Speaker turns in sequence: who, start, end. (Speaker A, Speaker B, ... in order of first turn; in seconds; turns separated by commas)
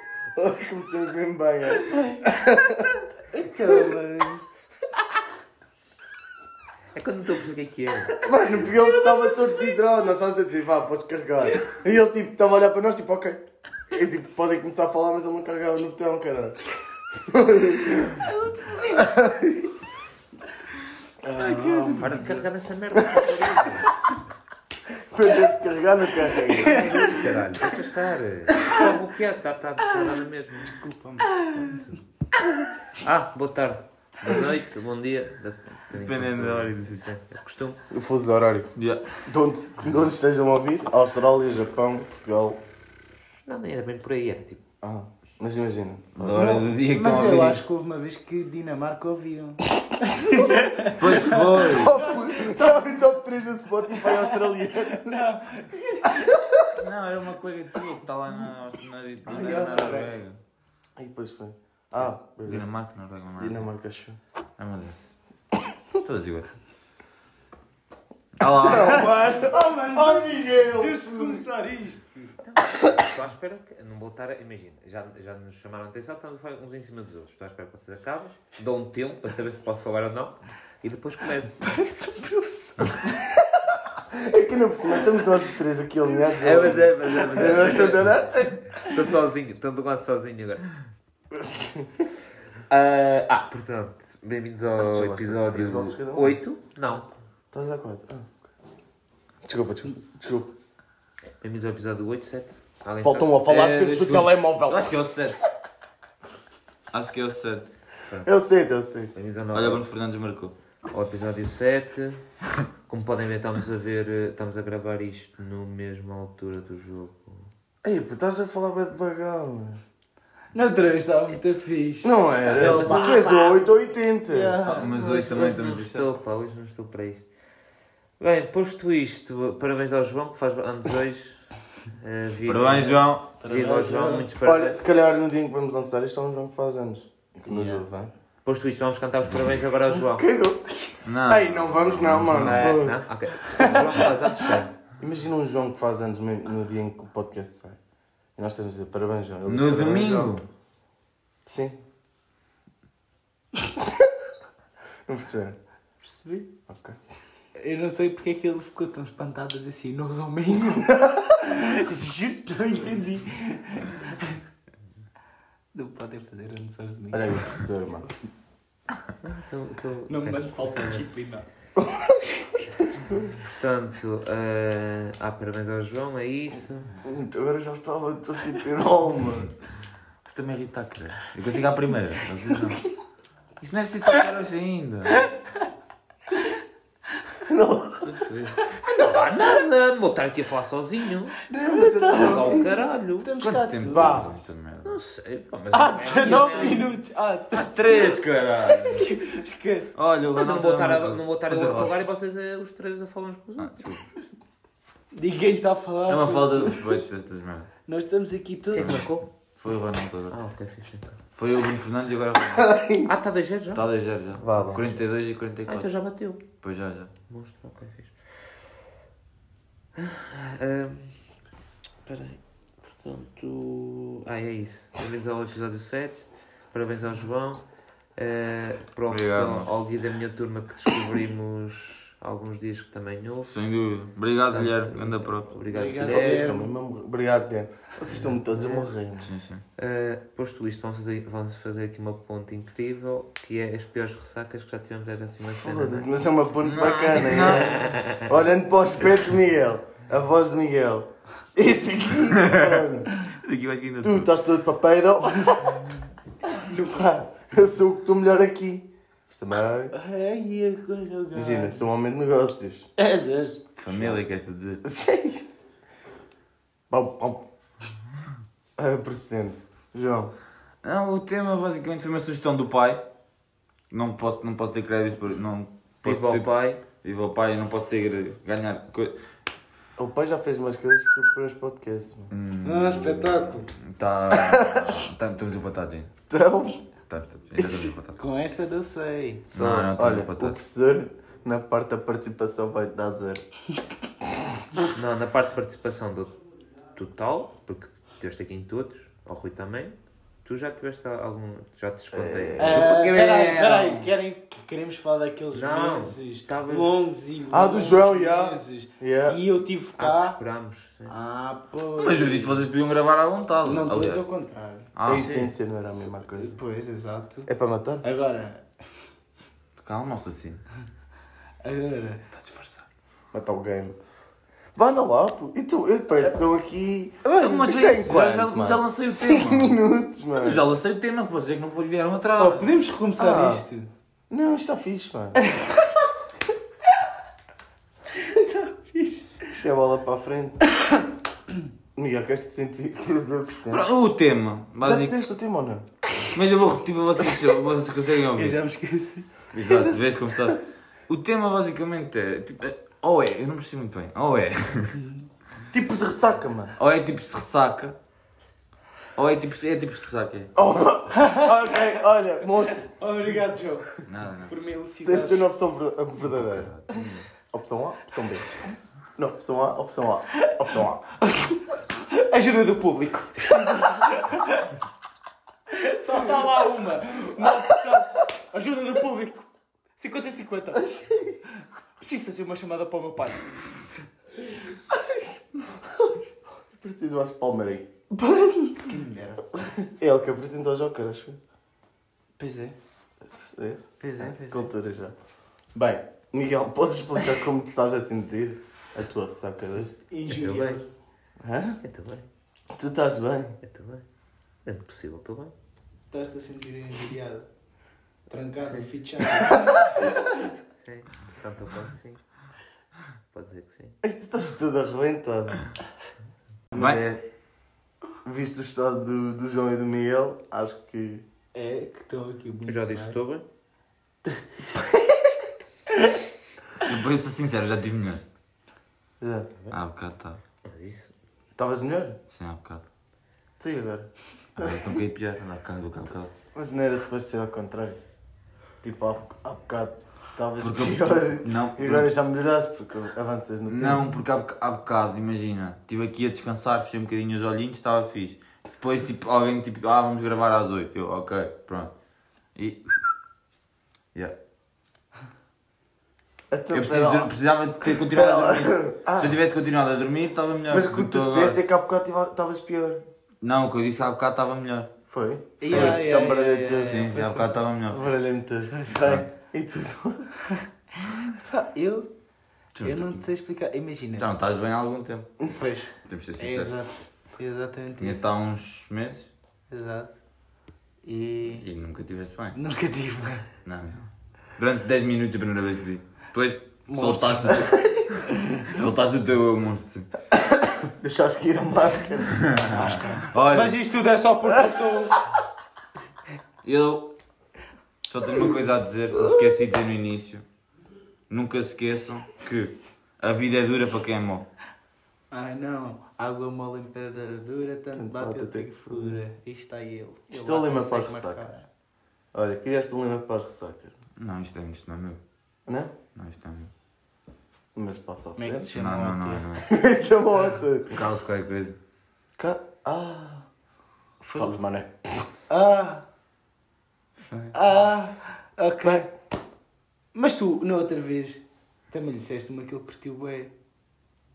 Speaker A: 0.3-2.9, Speaker B: 1.9-2.2, Speaker B: 3.3-4.5, Speaker A: 3.6-3.9, Speaker C: 7.0-8.2, Speaker A: 8.2-16.6, Speaker A: 17.2-18.3, Speaker B: 18.4-19.0, Speaker A: 18.9-19.7, Speaker B: 21.2-22.4, Speaker C: 21.4-23.9, Speaker A: 21.6-22.1, Speaker A: 25.1-27.2, Speaker B: 26.5-27.1, Speaker C: 26.7-30.8, Speaker B: 30.6-31.8, Speaker C: 31.5-32.0, Speaker C: 33.0-37.8, Speaker D: 35.9-37.1, Speaker A: 37.9-38.7, Speaker D: 38.8-39.1, Speaker A: 39.2-42.6, Speaker C: 43.4-44.6, Speaker A: 44.8-46.1, Speaker D: 46.1-47.6, Speaker B: 46.2-52.8, Speaker D: 50.9-52.0, Speaker A: 51.1-55.2, Speaker B: 53.9-54.5, Speaker B: 55.0-56.3, Speaker A: 56.2-56.6, Speaker D: 56.7-60.4, Speaker A: 59.3-60.1, Speaker A: 61.0-62.7, Speaker D: 62.0-63.7, Speaker A: 63.4-64.2, Speaker D: 64.6-65.0, Speaker D: 66.0-66.5, Speaker D: 68.4-69.1, Speaker A: 68.4-71.5, Speaker B: 69.4-72.3, Speaker C: 72.4-81.6, Speaker B: 81.6-83.1, Speaker A: 84.1-88.8, Speaker C: 86.4-88.1, Speaker C: 88.8-90.7, Speaker A: 91.3-92.1, Speaker C: 92.7-97.1, Speaker A: 95.0-96.4, Speaker A: 97.5-98.4, Speaker A: 99.5-100.5, Speaker C: 101.4-103.3, Speaker A: 103.0-105.0, Speaker D: 103.5-105.4, Speaker D: 106.9-107.7, Speaker A: 108.2-109.1, Speaker C: 109.1-109.9, Speaker D: 109.5-110.5, Speaker C: 110.9-112.2, Speaker C: 112.9-117.5, Speaker A: 117.8-119.8, Speaker B: 120.5-123.6, Speaker A: 122.0-124.6, Speaker C: 122.6-123.5, Speaker B: 124.3-125.7, Speaker D: 124.7-126.1, Speaker C: 124.8-127.3, Speaker C: 128.2-134.8, Speaker D: 132.5-133.3, Speaker B: 133.4-134.3, Speaker A: 134.4-138.1, Speaker B: 137.5-137.9, Speaker C: 138.4-140.3, Speaker A: 140.1-143.0, Speaker D: 141.1-142.8, Speaker C: 142.4-144.7, Speaker A: 143.6-144.1, Speaker A: 145.0-147.8, Speaker A: 148.4-150.4, Speaker D: 149.5-150.4, Speaker A: 151.4-151.8, Speaker A: 155.1-155.6, Speaker B: 156.0-156.5, Speaker A: 156.7-157.0, Speaker B: 157.6-164.4, Speaker B: 165.7-168.1, Speaker A: 167.1-168.1, Speaker C: 169.2-171.1, Speaker B: 170.1-171.5, Speaker A: 171.8-173.2, Speaker C: 173.3-176.9, Speaker A: 177.0-179.5, Speaker D: 180.2-182.9, Speaker D: 183.6-185.3, Speaker A: 187.5-188.1, Speaker D: 188.0-188.6, Speaker C: 188.9-191.4, Speaker A: 191.5-192.7, Speaker B: 191.6-194.3, Speaker C: 192.2-193.3, Speaker D: 193.4-195.0, Speaker A: 193.9-194.3, Speaker C: 194.8-197.0, Speaker B: 195.7-200.0, Speaker D: 197.6-199.1, Speaker D: 199.9-201.9, Speaker C: 200.4-203.8, Speaker D: 203.6-204.1, Speaker B: 205.1-206.7, Speaker D: 206.1-207.7, Speaker B: 207.9-209.0, Speaker C: 208.7-209.3, Speaker D: 208.8-210.4, Speaker C: 210.3-211.2, Speaker D: 211.3-212.7, Speaker A: 212.5-213.1, Speaker C: 213.1-215.0, Speaker D: 213.7-215.9, Speaker A: 214.4-214.9, Speaker C: 215.7-216.4, Speaker D: 216.6-217.1, Speaker C: 217.3-218.2, Speaker C: 220.0-221.2, Speaker C: 222.1-227.6, Speaker C: 228.2-233.5, Speaker D: 229.1-229.7, Speaker D: 233.5-235.5, Speaker C: 234.5-236.6, Speaker B: 235.7-236.7, Speaker A: 236.0-239.3, Speaker C: 238.1-238.9, Speaker D: 239.2-239.6, Speaker C: 239.8-246.1, Speaker A: 245.4-253.1, Speaker D: 246.6-247.9, Speaker C: 247.4-248.3, Speaker D: 252.4-252.8, Speaker D: 253.4-254.3, Speaker A: 254.0-255.8, Speaker B: 256.5-257.1, Speaker A: 256.8-259.9, Speaker B: 259.9-261.8, Speaker A: 261.3-262.9, Speaker B: 263.0-263.7, Speaker D: 263.8-264.8, Speaker A: 263.9-264.2, Speaker A: 264.8-265.4, Speaker A: 266.9-267.4, Speaker A: 268.8-270.3, Speaker D: 270.8-273.0, Speaker D: 273.9-276.5, Speaker C: 276.0-276.8, Speaker D: 277.0-279.2, Speaker A: 280.0-282.3, Speaker D: 282.3-286.1, Speaker B: 282.6-283.7, Speaker A: 284.3-284.8, Speaker A: 286.3-286.8, Speaker D: 287.1-288.2, Speaker A: 287.6-287.9, Speaker B: 288.2-289.5, Speaker D: 289.5-290.6, Speaker C: 289.5-289.9, Speaker A: 289.9-293.4, Speaker C: 294.9-296.4, Speaker C: 296.9-302.9, Speaker A: 302.1-302.8, Speaker B: 302.6-310.4, Speaker D: 302.7-304.1, Speaker C: 305.5-307.0, Speaker A: 307.5-309.4, Speaker C: 310.0-311.1, Speaker B: 311.1-312.6, Speaker D: 312.0-314.2, Speaker B: 313.6-314.9, Speaker D: 314.9-315.5, Speaker A: 315.1-316.5, Speaker B: 316.1-317.5, Speaker A: 317.5-318.0, Speaker B: 318.0-318.7, Speaker D: 319.8-320.6, Speaker B: 321.6-322.2, Speaker D: 322.3-322.8, Speaker A: 323.3-324.0, Speaker A: 324.8-330.6, Speaker B: 327.2-327.7, Speaker D: 327.4-329.8, Speaker D: 330.4-332.7, Speaker B: 332.4-333.9, Speaker A: 333.2-333.7, Speaker A: 334.3-335.4, Speaker B: 335.4-336.0, Speaker B: 338.2-339.4, Speaker A: 339.5-340.7, Speaker A: 342.0-343.9, Speaker D: 343.7-345.1, Speaker A: 344.8-345.9, Speaker D: 346.3-348.6, Speaker B: 348.3-350.5, Speaker D: 349.5-355.0, Speaker A: 355.7-356.7, Speaker D: 356.8-358.0, Speaker D: 359.2-360.5, Speaker A: 360.6-362.9, Speaker B: 362.6-365.4, Speaker D: 364.1-364.6, Speaker A: 365.0-366.7, Speaker D: 366.2-367.3, Speaker A: 367.5-368.5, Speaker A: 369.2-371.0, Speaker B: 371.2-374.7, Speaker B: 375.7-381.0, Speaker A: 380.8-381.3, Speaker B: 382.0-383.5, Speaker A: 386.0-386.2, Speaker A: 386.8-387.9, Speaker B: 388.2-389.4, Speaker A: 389.6-391.4, Speaker B: 392.4-392.8, Speaker A: 393.3-395.1, Speaker B: 394.0-394.7, Speaker A: 395.7-399.9, Speaker B: 400.1-400.9, Speaker C: 400.3-400.8, Speaker A: 401.4-401.8, Speaker C: 401.8-402.3, Speaker A: 402.8-403.6, Speaker C: 403.6-404.1, Speaker C: 404.6-405.5, Speaker B: 406.1-407.5, Speaker B: 408.3-409.9, Speaker C: 408.6-408.9, Speaker C: 410.7-412.2, Speaker C: 413.3-414.0, Speaker A: 414.0-415.6, Speaker A: 416.7-417.2, Speaker D: 416.8-417.0, Speaker A: 418.2-421.2, Speaker B: 421.6-423.2, Speaker C: 422.7-423.4, Speaker D: 426.8-428.2, Speaker A: 429.2-429.5, Speaker D: 429.7-430.4, Speaker C: 430.6-431.1, Speaker A: 431.6-432.2, Speaker D: 432.3-432.9, Speaker A: 433.6-435.0, Speaker D: 434.6-436.3, Speaker A: 436.6-438.0, Speaker A: 438.8-444.1, Speaker D: 440.6-442.1, Speaker D: 443.7-451.9, Speaker D: 452.6-452.9, Speaker A: 456.5-457.3, Speaker D: 456.7-461.6, Speaker A: 458.1-459.4, Speaker A: 460.7-463.0, Speaker D: 463.4-464.9, Speaker A: 465.1-467.0, Speaker B: 465.6-467.6, Speaker D: 465.7-466.0, Speaker D: 466.8-468.1, Speaker A: 467.9-470.3, Speaker D: 469.0-469.3, Speaker B: 471.2-472.1, Speaker D: 472.8-473.3, Speaker B: 472.8-474.3, Speaker D: 474.2-475.4, Speaker B: 475.6-478.2, Speaker D: 476.1-476.8, Speaker D: 478.0-479.3, Speaker B: 479.7-480.1, Speaker B: 481.0-481.6, Speaker D: 481.5-482.6, Speaker B: 482.5-483.5, Speaker D: 483.6-488.1, Speaker B: 486.9-488.8, Speaker D: 488.8-490.1, Speaker A: 491.0-492.5, Speaker D: 492.5-493.8, Speaker B: 492.7-495.2, Speaker D: 496.6-497.1, Speaker D: 498.1-500.4, Speaker D: 501.3-504.5, Speaker B: 505.3-511.7, Speaker A: 507.9-509.2, Speaker A: 510.3-511.6, Speaker A: 512.3-513.9, Speaker D: 514.2-515.2, Speaker A: 515.7-516.0, Speaker D: 516.1-516.7, Speaker A: 517.8-518.7, Speaker B: 518.4-519.5, Speaker D: 518.8-519.6, Speaker A: 519.6-520.9, Speaker D: 520.9-521.8, Speaker A: 522.4-523.5, Speaker B: 524.2-524.5, Speaker A: 524.3-525.3, Speaker B: 525.5-526.0, Speaker D: 527.3-527.6, Speaker B: 527.5-529.1, Speaker B: 530.1-533.5